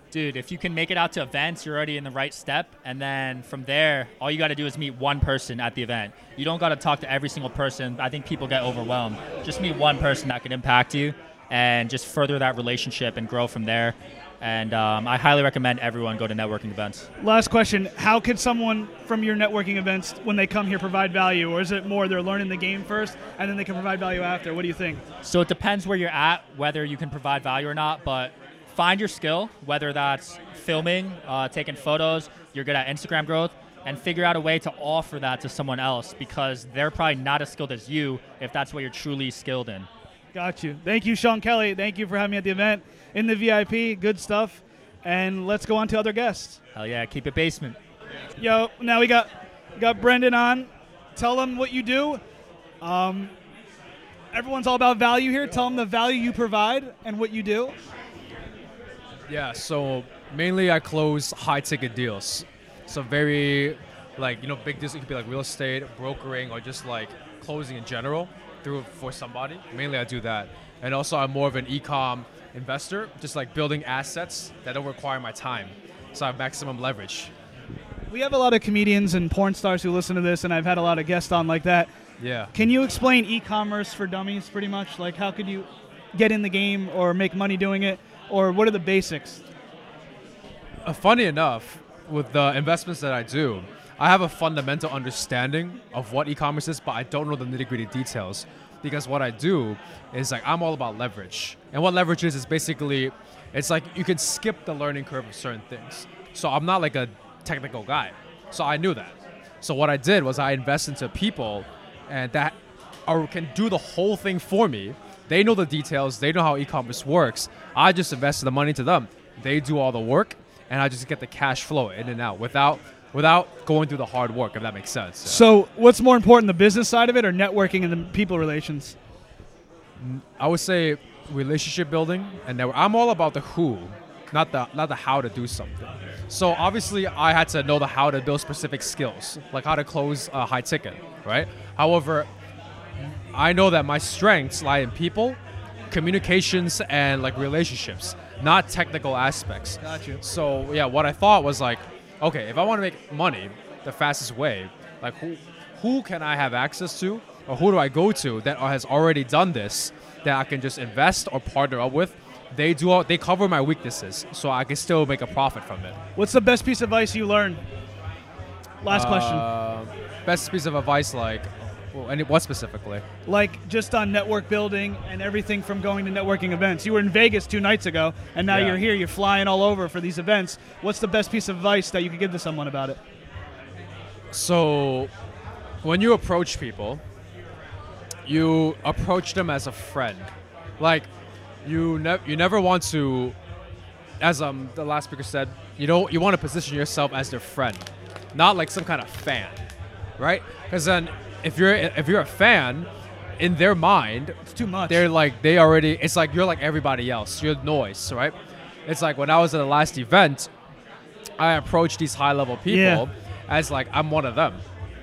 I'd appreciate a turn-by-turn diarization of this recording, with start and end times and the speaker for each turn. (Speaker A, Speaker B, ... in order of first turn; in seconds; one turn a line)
Speaker A: 0.1-17.1
Speaker B: 17.2-25.0
Speaker A: 25.2-39.9
Speaker B: 40.3-46.6
Speaker A: 46.7-47.8
Speaker B: 48.4-52.2
Speaker B: 52.8-53.3
Speaker B: 54.3-57.8
Speaker C: 59.3-77.3
Speaker B: 78.1-81.9
Speaker C: 82.2-82.5
Speaker B: 82.5-89.4
Speaker C: 90.8-112.5
Speaker C: 113.1-125.5
Speaker B: 125.2-128.9
Speaker C: 130.0-142.3
Speaker C: 143.3-145.4
Speaker C: 145.9-166.0
Speaker B: 149.8-150.2
Speaker B: 166.2-167.6
Speaker B: 168.8-169.4
Speaker C: 168.9-173.0
Speaker B: 173.2-183.0
Speaker C: 178.5-178.8
Speaker C: 184.3-185.1
Speaker C: 185.8-187.0
Speaker C: 188.2-191.1
Speaker C: 191.6-193.3
Speaker C: 194.2-199.6
Speaker C: 200.2-202.9
Speaker C: 203.4-208.3
Speaker B: 204.5-205.0
Speaker C: 208.9-210.5
Speaker C: 211.4-214.6
Speaker B: 212.7-213.1